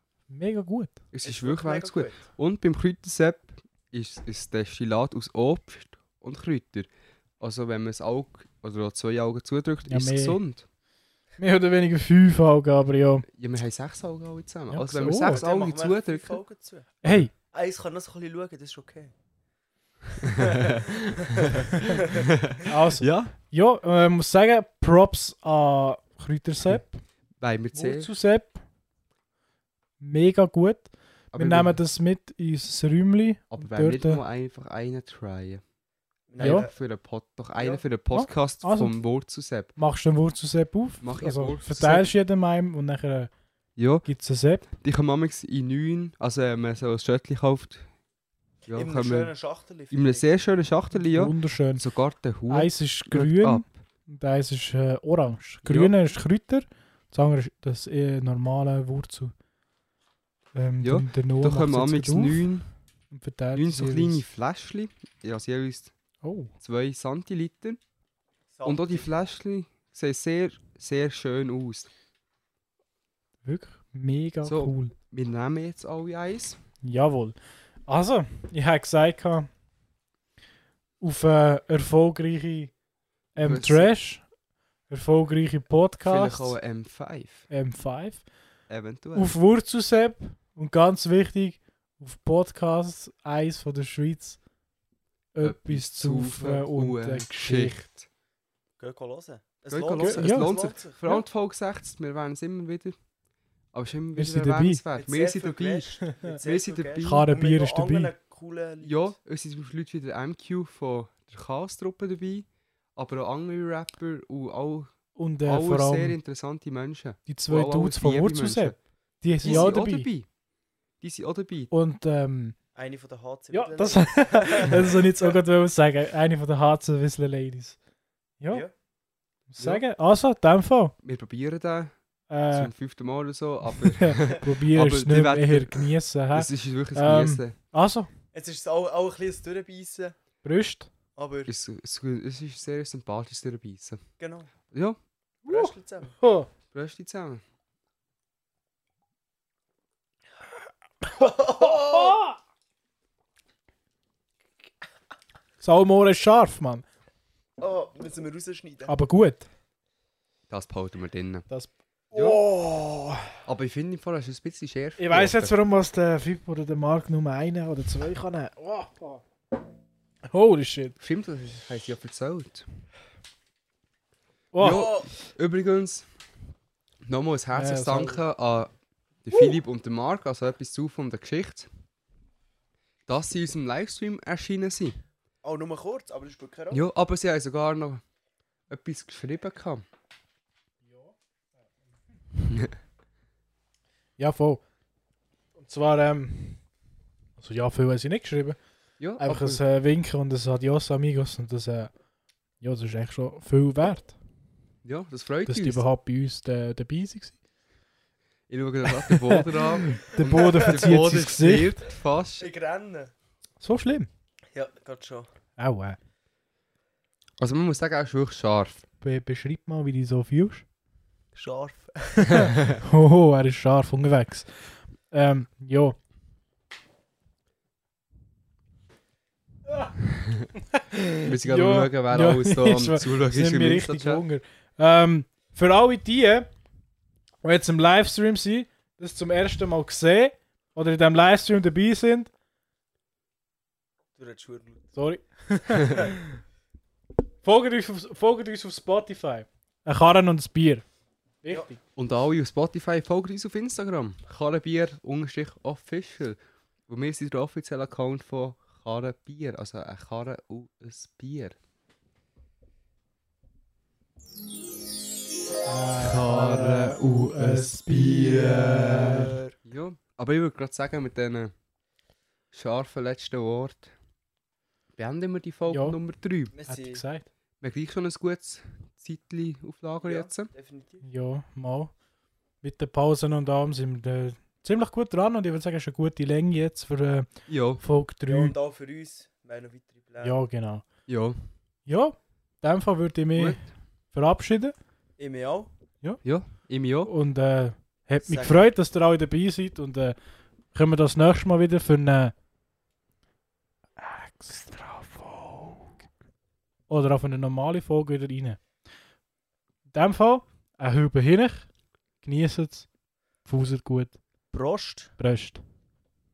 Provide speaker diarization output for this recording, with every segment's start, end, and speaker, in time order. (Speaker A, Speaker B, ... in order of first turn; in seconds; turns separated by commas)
Speaker A: 0.3-0.9, Speaker B: 1.1-6.9, Speaker C: 1.2-2.2, Speaker B: 7.4-10.6, Speaker A: 9.9-10.4, Speaker A: 11.4-13.2, Speaker B: 13.3-16.4, Speaker A: 14.7-15.4, Speaker C: 15.2-16.9, Speaker A: 17.0-17.3, Speaker C: 17.5-19.1, Speaker C: 20.2-22.3, Speaker B: 20.5-23.3, Speaker A: 22.7-27.0, Speaker B: 27.4-28.1, Speaker A: 27.7-28.6, Speaker A: 30.0-34.2, Speaker B: 31.3-31.8, Speaker B: 33.5-35.6, Speaker C: 36.3-36.7, Speaker B: 36.4-39.7, Speaker A: 36.4-36.6, Speaker C: 37.6-37.8, Speaker A: 38.1-38.9, Speaker A: 39.8-43.3, Speaker B: 41.0-42.1, Speaker B: 43.8-44.0, Speaker A: 44.0-44.6, Speaker B: 44.6-47.9, Speaker B: 48.6-49.3, Speaker C: 48.7-50.3, Speaker B: 49.9-53.7, Speaker A: 51.0-51.8, Speaker A: 52.5-59.3, Speaker B: 55.6-55.9, Speaker A: 60.5-62.5, Speaker B: 60.8-62.7, Speaker A: 63.1-64.2, Speaker B: 63.5-65.9, Speaker A: 66.2-66.5, Speaker B: 66.6-67.8, Speaker C: 68.5-69.1, Speaker B: 68.6-71.9, Speaker A: 73.4-74.9, Speaker B: 74.4-76.6, Speaker A: 76.8-79.5, Speaker A: 81.0-82.7, Speaker A: 83.3-84.2, Speaker B: 83.4-83.9, Speaker A: 84.9-86.6, Speaker B: 86.0-87.5, Speaker A: 87.5-88.2, Speaker B: 88.7-89.3, Speaker A: 89.1-94.4, Speaker A: 95.3-97.9, Speaker B: 95.4-98.0, Speaker C: 98.8-101.2, Speaker B: 99.7-103.0, Speaker A: 100.0-100.5, Speaker B: 103.7-107.2, Speaker A: 104.2-104.8, Speaker C: 105.0-109.1, Speaker A: 107.0-108.1, Speaker B: 108.8-118.8, Speaker A: 115.1-116.2, Speaker A: 117.3-120.1, Speaker B: 119.4-120.3, Speaker C: 119.4-119.7, Speaker B: 121.0-121.7, Speaker A: 121.7-122.5, Speaker C: 122.7-125.3, Speaker A: 123.5-127.8, Speaker A: 128.4-128.7, Speaker A: 129.5-130.9, Speaker B: 131.0-131.9, Speaker A: 132.3-132.7, Speaker B: 132.5-137.6, Speaker A: 133.8-138.1, Speaker C: 138.3-140.1, Speaker A: 140.4-140.9, Speaker C: 141.2-141.5, Speaker B: 141.5-144.0, Speaker C: 144.2-144.5, Speaker B: 144.7-145.0, Speaker C: 145.4-146.2, Speaker A: 145.5-146.5, Speaker B: 146.7-147.4, Speaker C: 151.1-152.2, Speaker A: 151.2-152.3, Speaker A: 155.6-156.8, Speaker C: 157.6-158.9, Speaker A: 158.9-159.5, Speaker B: 160.5-161.4, Speaker A: 161.5-163.2, Speaker B: 162.1-162.4, Speaker B: 163.4-165.5, Speaker A: 165.0-169.2, Speaker A: 170.3-170.9, Speaker B: 171.0-172.7, Speaker A: 174.5-174.9, Speaker C: 174.6-175.0, Speaker B: 174.6-176.1, Speaker B: 177.0-178.7, Speaker A: 177.5-178.2, Speaker B: 179.2-181.7, Speaker B: 183.1-185.0, Speaker C: 185.4-186.8, Speaker B: 186.7-188.0, Speaker B: 188.7-189.8, Speaker A: 194.2-194.6, Speaker A: 195.6-196.6, Speaker A: 197.4-198.6, Speaker B: 199.0-199.6, Speaker A: 199.2-201.9, Speaker A: 202.6-204.1, Speaker B: 204.8-205.8, Speaker A: 205.4-207.3, Speaker B: 208.5-212.5, Speaker A: 208.9-211.8, Speaker C: 210.2-211.0, Speaker C: 212.4-213.1, Speaker A: 213.6-214.1, Speaker C: 214.5-215.3, Speaker A: 215.6-216.0, Speaker B: 217.4-218.8, Speaker A: 219.0-220.6, Speaker C: 221.3-222.5, Speaker B: 222.3-222.8, Speaker A: 222.3-224.5, Speaker A: 225.1-226.0, Speaker A: 230.7-236.5, Speaker B: 231.2-234.2, Speaker A: 237.4-242.3, Speaker C: 244.2-244.9, Speaker A: 244.9-246.4, Speaker A: 247.4-250.8, Speaker A: 251.4-251.8, Speaker B: 251.9-261.5, Speaker A: 265.6-269.3, Speaker B: 266.0-271.5, Speaker C: 269.0-269.5, Speaker B: 272.5-273.9, Speaker B: 274.9-276.5, Speaker A: 275.7-276.0, Speaker C: 276.5-277.0, Speaker A: 276.6-277.2, Speaker B: 277.6-280.5, Speaker C: 280.0-281.0, Speaker A: 281.0-281.9, Speaker A: 282.6-288.5, Speaker B: 287.5-287.8, Speaker C: 288.3-290.4, Speaker A: 290.2-290.8, Speaker B: 291.1-291.4, Speaker A: 291.9-294.7, Speaker B: 293.3-293.7, Speaker C: 295.2-295.7, Speaker B: 296.2-297.1, Speaker A: 297.0-300.1, Speaker C: 298.2-298.7, Speaker A: 300.7-302.3, Speaker A: 304.0-305.9, Speaker A: 306.9-308.6, Speaker A: 309.9-311.7, Speaker A: 312.2-312.9, Speaker A: 313.4-314.2, Speaker C: 314.5-315.1, Speaker A: 315.2-315.6